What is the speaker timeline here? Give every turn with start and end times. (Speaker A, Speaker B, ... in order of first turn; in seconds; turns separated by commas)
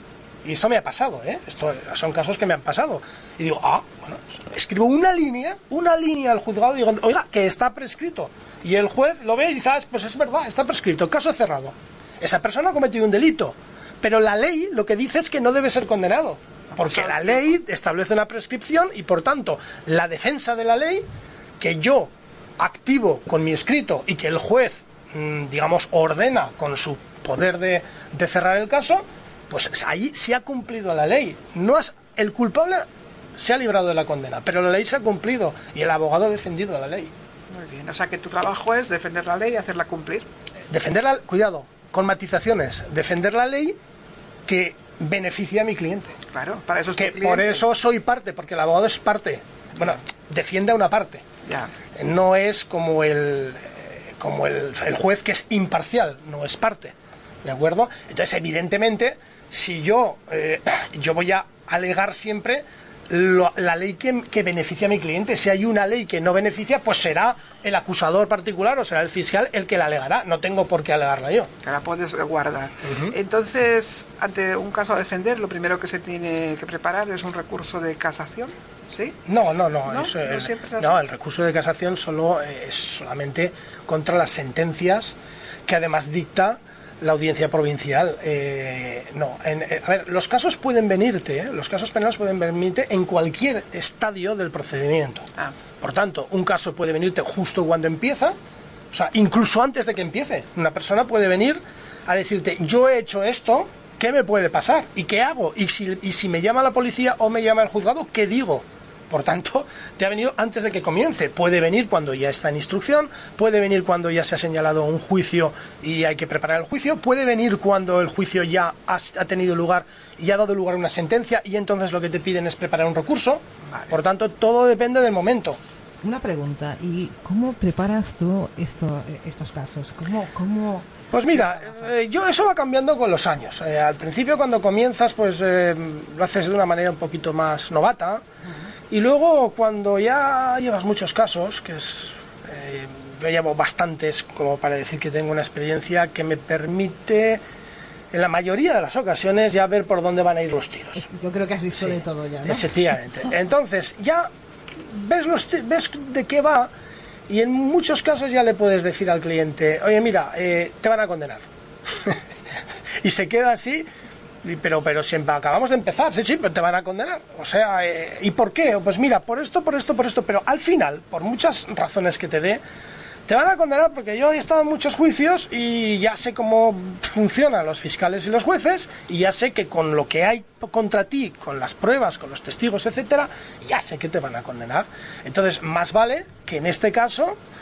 Speaker A: 0.4-21.1, Speaker B: 16.7-17.4, Speaker A: 21.6-37.1, Speaker B: 37.5-40.3, Speaker A: 40.7-43.8, Speaker A: 44.5-46.2, Speaker B: 46.3-47.6, Speaker A: 47.0-51.2, Speaker B: 51.5-51.7, Speaker A: 52.0-71.5, Speaker B: 71.6-79.2, Speaker A: 72.8-73.1, Speaker A: 79.3-95.3, Speaker B: 79.9-81.0, Speaker A: 95.8-98.3, Speaker A: 98.9-125.6, Speaker C: 126.0-131.0, Speaker A: 131.1-138.2, Speaker A: 138.9-147.4, Speaker A: 148.1-151.1, Speaker C: 151.0-152.7, Speaker A: 151.8-154.3, Speaker A: 154.8-156.7, Speaker A: 157.3-162.2, Speaker A: 163.0-163.9, Speaker A: 164.4-172.6, Speaker A: 173.3-187.4